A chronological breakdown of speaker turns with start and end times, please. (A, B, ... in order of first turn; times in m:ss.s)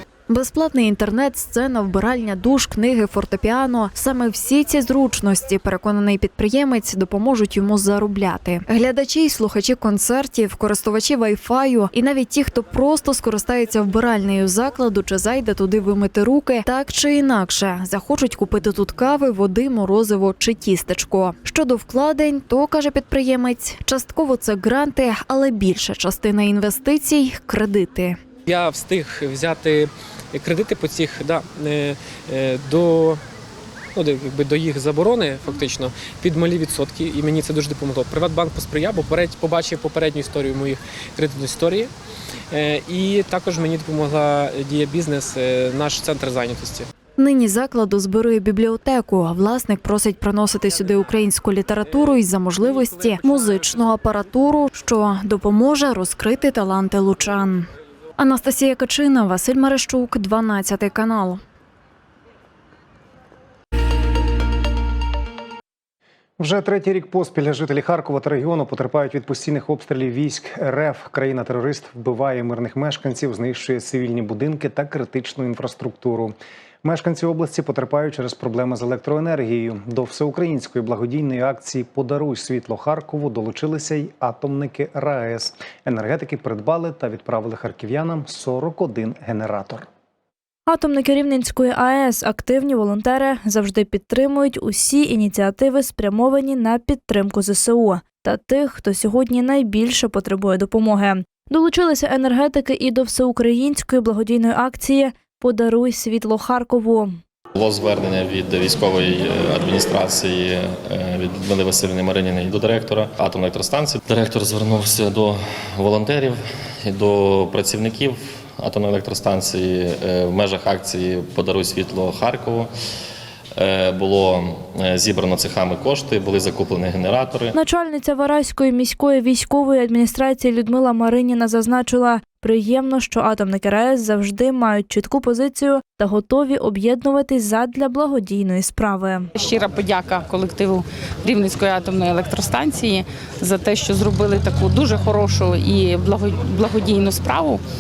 0:00.3-0:28.2 A
0:28.5-0:33.2 B
0:33.9-0:41.9 B
0:42.5-0:46.9 B
0:47.2-1:01.4 A
1:06.4-1:29.9 C
1:30.7-1:47.2 D
1:47.5-2:02.7 E
2:03.6-2:07.5 E
2:07.5-2:19.3 D
2:19.4-2:27.6 F